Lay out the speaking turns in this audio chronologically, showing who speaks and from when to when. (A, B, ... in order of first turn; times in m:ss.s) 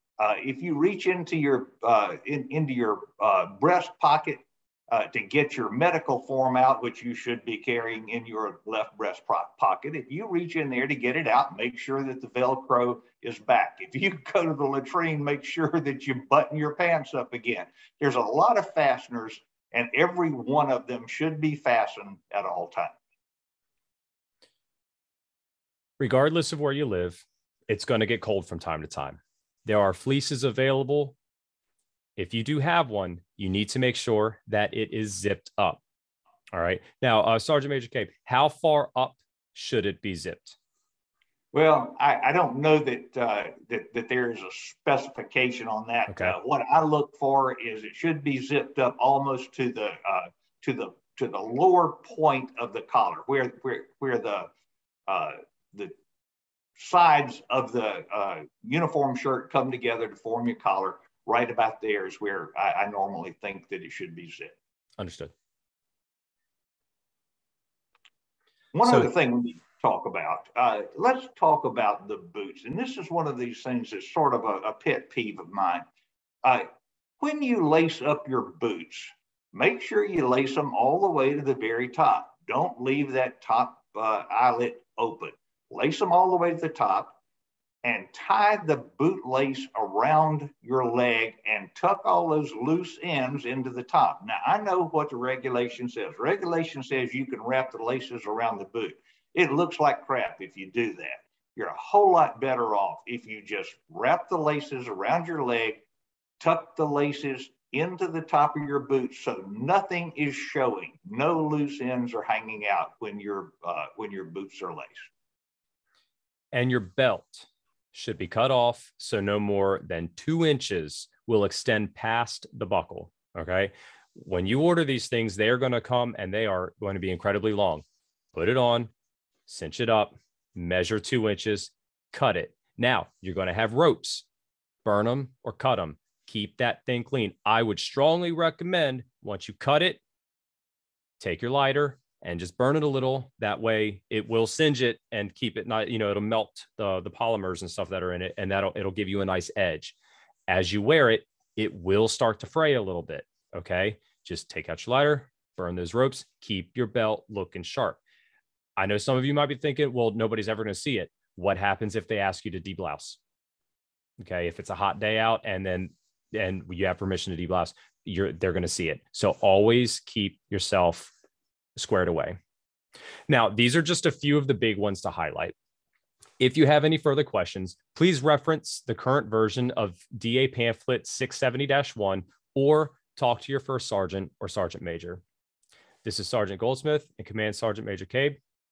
0:00.2-0:22.9 A
0:26.0-0:31.2 B
0:32.2-0:35.8 B
0:36.5-0:40.6 B
0:41.5-0:54.5 A
0:46.1-0:46.3 B
0:55.1-0:55.9 A
0:56.8-1:04.6 A
1:05.0-1:05.3 B
1:08.7-1:15.8 A
1:08.8-1:09.1 B
1:17.2-1:27.2 A
1:27.8-1:45.8 A
1:46.4-1:55.1 A
1:56.5-2:07.8 B
2:08.3-2:08.9 B
2:09.5-2:14.2 B
2:14.8-2:20.0 B
2:21.2-2:29.9 B
2:30.5-2:38.0 B
2:38.8-2:43.2 B
2:44.2-2:51.1 B
2:51.8-2:52.4 B
2:53.3-2:55.5 B
2:56.4-3:05.2 B
3:06.0-3:08.4 B